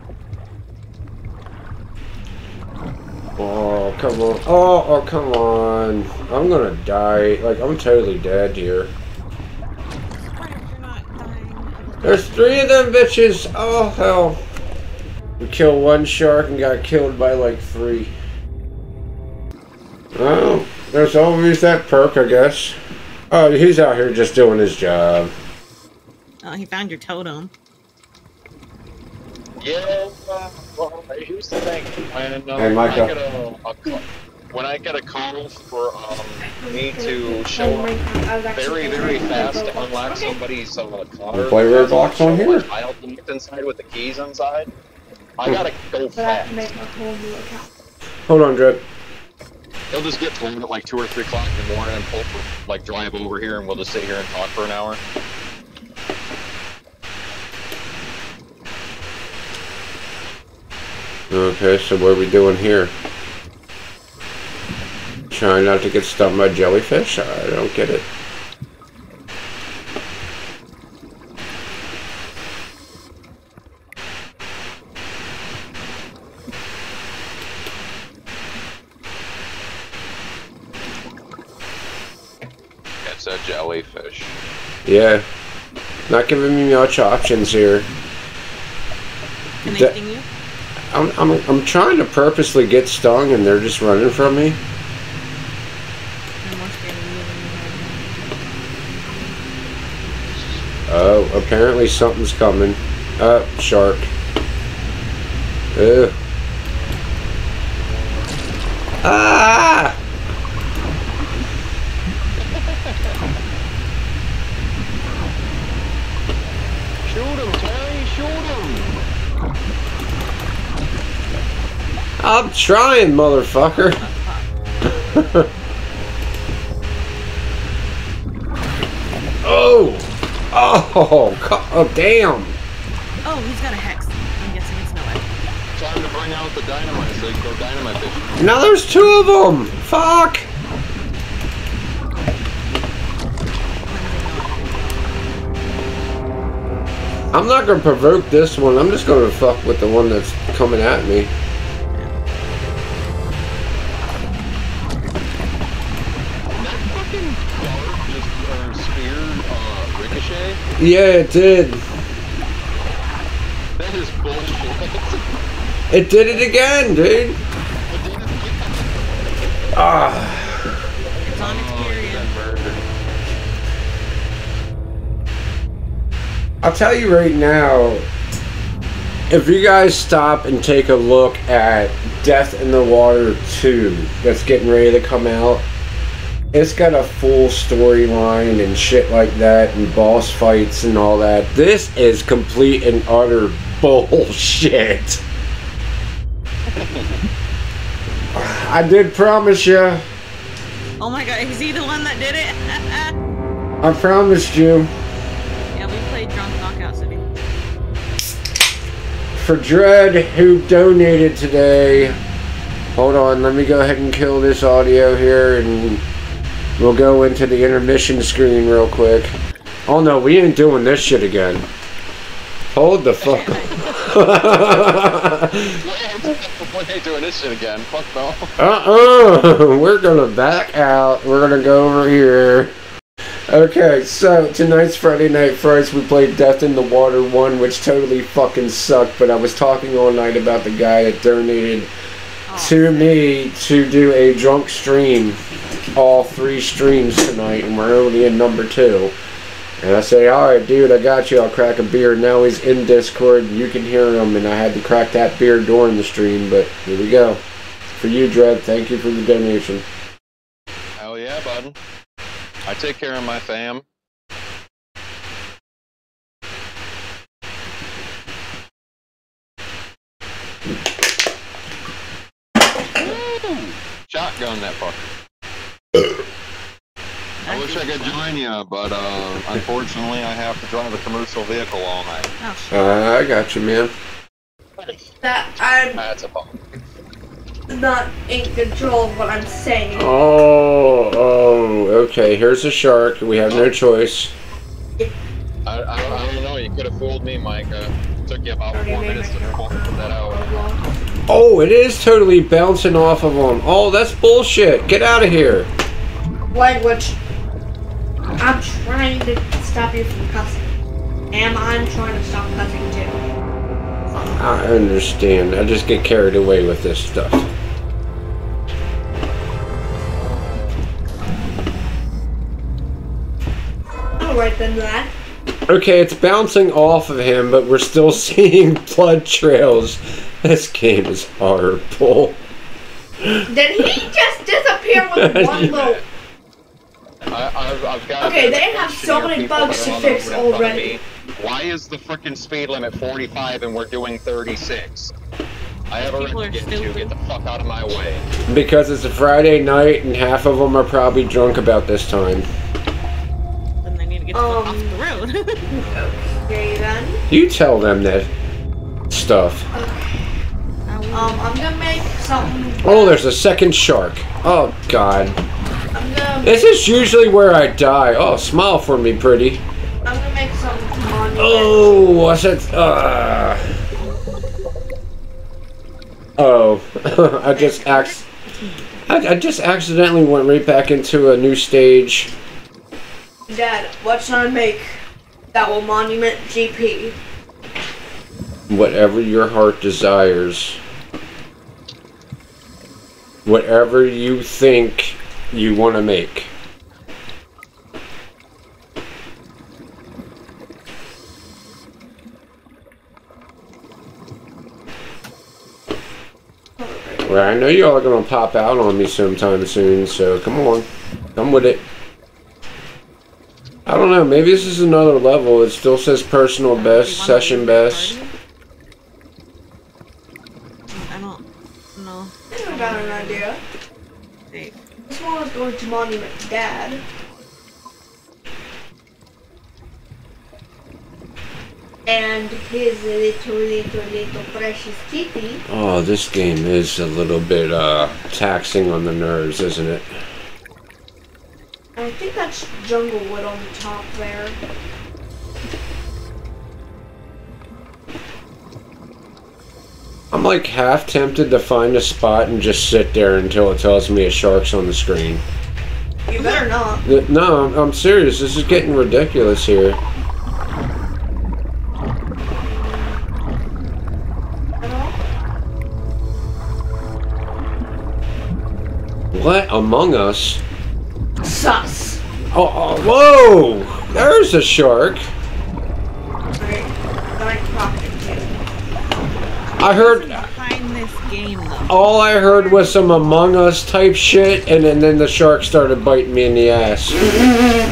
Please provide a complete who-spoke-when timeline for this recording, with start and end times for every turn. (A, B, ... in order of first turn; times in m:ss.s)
0:03.4-0:08.9 A
0:10.2-0:12.8 B
0:12.0-0:14.4 A
0:15.4-0:18.1 A
0:20.2-0:22.8 A
0:23.3-0:25.3 A
0:26.4-0:27.5 B
0:29.6-0:37.9 C
0:32.6-0:33.1 A
0:36.4-0:40.4 D
0:38.5-0:44.7 C
0:41.3-0:42.7 A
0:45.4-0:46.7 C
0:46.2-0:47.7 D
0:48.3-0:48.8 A
0:49.9-0:55.0 C
1:01.3-1:02.9 A
1:05.3-1:08.1 A
1:23.0-1:24.4 C
1:24.8-1:25.2 A
1:26.1-1:27.9 A
1:29.6-1:30.3 B
1:29.7-1:30.0 A
1:30.9-1:34.6 A
1:36.4-1:38.3 B
1:40.9-1:44.1 A
1:45.7-1:46.2 A
1:49.0-1:50.0 A
1:52.5-1:53.2 C
1:57.1-1:58.9 C
2:02.2-2:04.0 A
2:03.7-2:04.5 B
2:05.1-2:05.5 A
2:09.4-2:12.6 A
2:13.2-2:15.2 B
2:15.8-2:18.4 C
2:18.4-2:20.5 A
2:23.9-2:25.2 B
2:27.3-2:31.3 A
2:36.6-2:40.6 C
2:40.8-2:41.8 A
2:43.8-2:45.3 C
2:45.9-2:47.4 A
2:47.9-2:49.0 C
2:49.7-2:50.8 A
2:51.2-2:52.8 C
2:51.2-2:52.3 B
2:56.6-2:58.1 A
2:59.3-3:05.6 A
3:06.5-3:15.2 A
3:16.8-3:17.1 C
3:18.3-3:20.0 A
3:21.0-3:23.2 B
3:23.8-3:24.9 A
3:25.7-3:27.2 B
3:29.4-3:32.2 A
3:33.0-3:36.0 A
3:36.8-3:39.4 A
3:39.9-3:41.6 A
3:42.7-3:45.7 A
3:43.2-3:44.1 B
3:45.8-3:48.5 C
3:48.6-3:52.7 A
3:53.5-4:01.9 A
4:02.5-4:03.3 B
4:02.6-4:05.4 A
4:06.0-4:09.1 A
4:09.8-4:17.4 A
4:18.0-4:19.9 A
4:21.0-4:21.8 C
4:22.7-4:23.8 C
4:33.0-4:35.1 C
4:37.4-4:38.2 B
4:37.5-4:42.3 C
4:42.4-4:43.0 B
4:42.7-4:43.9 A
4:45.2-4:46.0 D
4:46.0-4:46.6 C
4:47.7-4:50.1 D
4:50.0-4:54.3 A
4:53.4-4:53.7 C
4:55.7-5:00.4 C
4:58.7-5:00.9 D
5:01.3-5:05.7 A
5:06.5-5:07.2 D
5:08.4-5:10.7 D
5:11.3-5:13.2 D
5:14.4-5:17.5 A
5:20.2-5:20.8 C
5:24.2-5:25.1 D
5:25.7-5:32.4 A
5:33.5-5:36.0 D
5:35.0-5:35.8 A
5:35.6-5:36.0 C
5:37.3-5:45.1 C
5:38.2-5:41.0 D
5:45.9-5:48.2 C
5:46.0-5:47.1 B
5:48.5-5:52.5 A
5:53.8-5:55.6 B
5:54.3-5:55.0 D
5:55.7-5:57.2 D
5:57.3-5:58.3 A
5:59.1-5:59.7 A
5:59.7-6:00.3 D
6:00.9-6:01.5 B
6:01.1-6:03.2 D
6:02.8-6:05.4 A
6:05.9-6:06.7 D
6:06.4-6:09.6 A
6:10.0-6:12.2 D
6:11.4-6:13.7 A
6:16.4-6:18.2 A
6:17.5-6:19.1 B
6:19.1-6:22.3 A
6:23.5-6:24.9 D
6:25.5-6:27.2 D
6:28.7-6:30.8 A
6:33.4-6:36.5 A
6:46.8-6:47.3 D
6:47.2-6:51.8 A
6:53.9-6:58.2 A
6:56.8-6:58.3 B
7:00.9-7:01.4 B
7:02.0-7:03.5 B
7:02.5-7:03.6 D
7:04.5-7:04.8 B
7:05.1-7:07.0 D
7:12.1-7:15.6 D
7:15.7-7:20.2 A
7:22.0-7:24.6 D
7:30.3-7:35.4 A
7:36.3-7:37.0 D
7:37.1-7:40.0 A
7:42.6-7:43.2 D
7:44.8-7:45.2 D
7:49.3-7:50.6 A
7:51.4-7:52.2 D
7:52.5-7:55.3 A
7:56.6-7:58.5 D
7:59.7-8:03.2 B
7:59.8-8:00.5 A
8:01.9-8:07.2 A